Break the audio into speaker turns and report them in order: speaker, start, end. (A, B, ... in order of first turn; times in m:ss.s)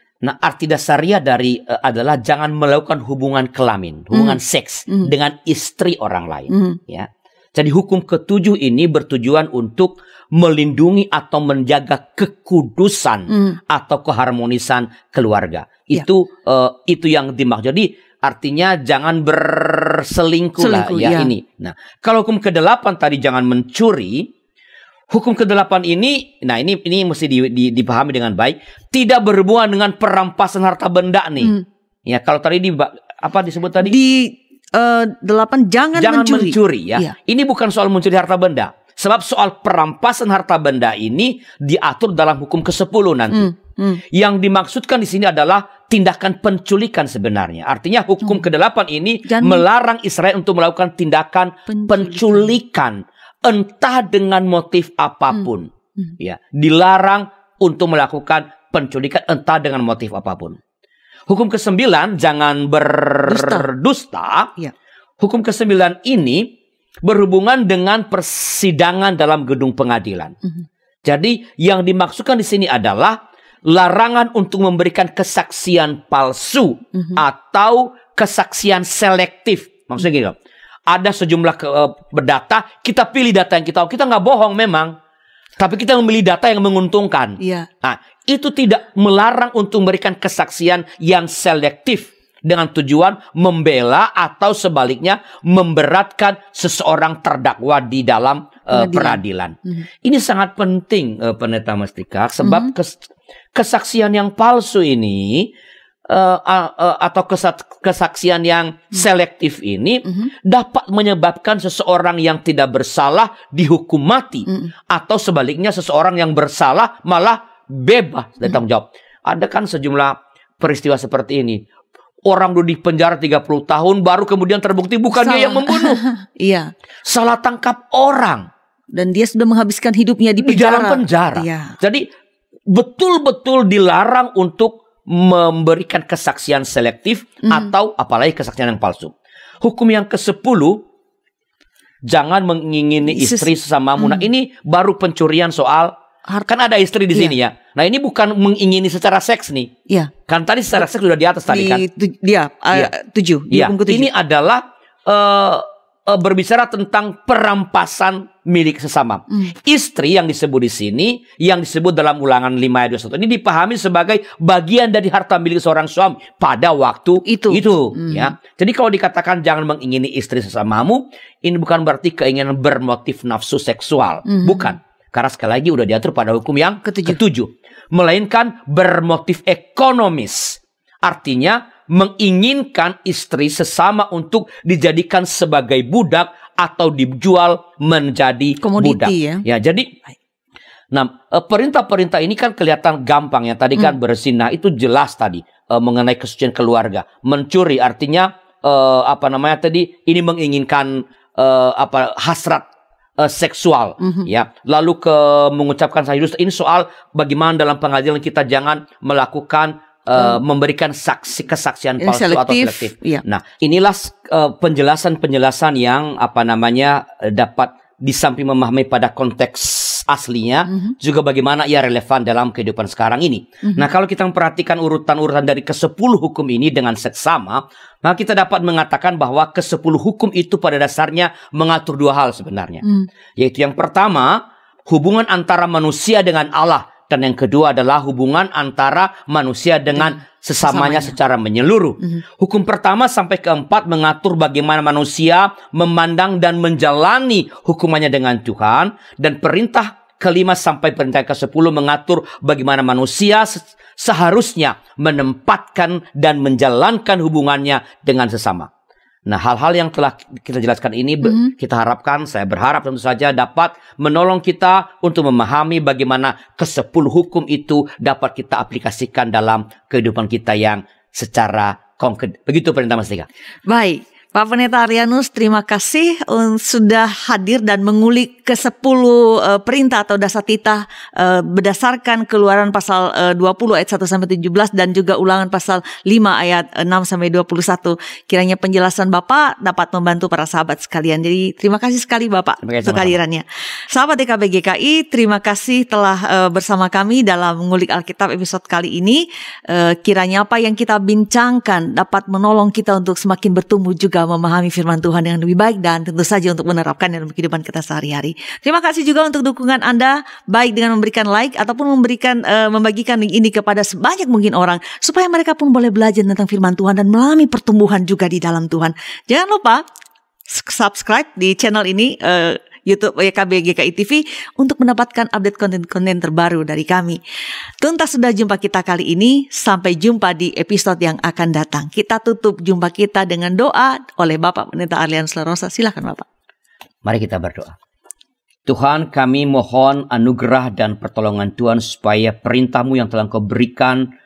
0:00.2-0:24.3 A
0:04.1-0:05.1 B
0:06.5-0:06.8 B
0:13.3-0:13.6 B
0:20.6-0:21.3 B
0:25.1-0:34.0 A
0:33.8-0:37.1 B
0:36.0-0:43.5 A
0:43.3-0:44.0 B
0:44.1-0:55.7 A
0:49.2-0:49.6 B
0:51.7-0:52.5 B
0:56.2-1:00.6 A
1:01.3-1:04.5 A
1:03.3-1:03.7 B
1:05.2-1:06.5 A
1:07.0-1:10.3 A
1:11.0-1:20.4 A
1:20.9-1:24.9 A
1:25.6-1:45.5 A
1:27.4-1:27.7 B
1:38.7-1:39.2 B
1:42.4-1:42.7 B
1:46.1-2:01.6 A
2:02.2-2:06.0 A
2:05.1-2:06.7 B
2:07.0-2:08.5 A
2:08.9-2:11.8 B
2:10.4-2:12.1 A
2:12.7-2:20.8 A
2:22.0-2:25.9 A
2:23.1-2:24.2 B
2:26.5-2:29.7 A
2:30.3-2:31.8 A
2:31.5-2:34.1 B
2:33.5-3:09.9 A
2:47.2-2:48.3 B
2:54.3-2:54.7 B
2:56.8-2:57.2 B
3:08.6-3:09.4 B
3:10.9-3:22.6 A
3:23.2-3:52.8 A
3:32.0-3:33.2 B
3:40.7-3:40.9 B
3:53.4-4:18.7 A
4:00.0-4:01.1 B
4:19.2-4:33.3 A
4:21.2-4:21.5 B
4:33.7-5:19.8 B
4:52.6-4:53.2 A
5:20.5-5:27.2 B
5:27.8-5:36.2 B
5:37.0-5:37.7 A
5:38.6-5:44.1 A